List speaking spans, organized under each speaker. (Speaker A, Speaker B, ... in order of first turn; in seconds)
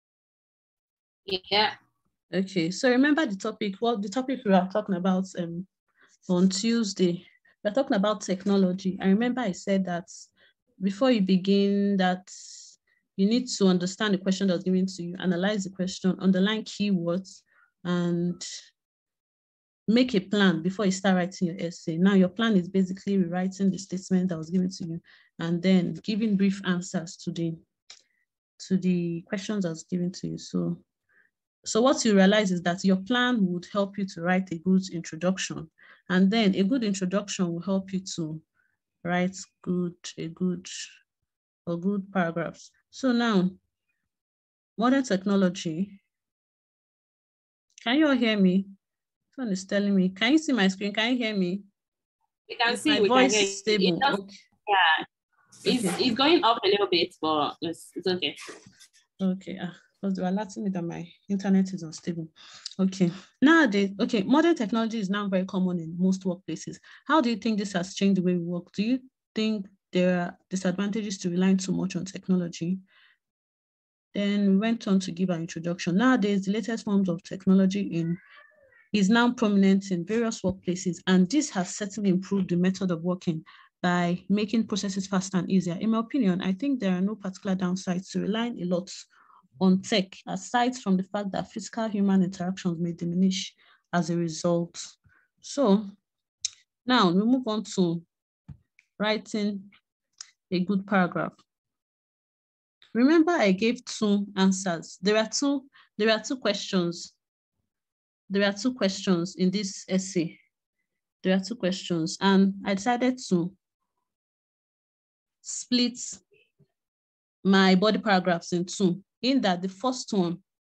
Speaker A: 1.2-1.7, 52.5-54.1, 54.7-55.0, 55.6-58.4
Speaker B: 2.3-5.7, 6.3-18.4, 19.9-27.6, 28.6-30.8, 31.6-38.4, 39.0-40.9, 41.7-43.6, 44.8-46.0, 47.8-48.7, 49.3-51.6, 52.7-54.3, 59.2-72.8, 74.1-78.2, 78.9-89.1, 89.6-95.9, 96.8-98.0, 99.0-99.7, 100.5-101.4, 102.9-107.1, 108.3-110.4, 111.2-113.5, 115.4-116.2, 117.4-120.4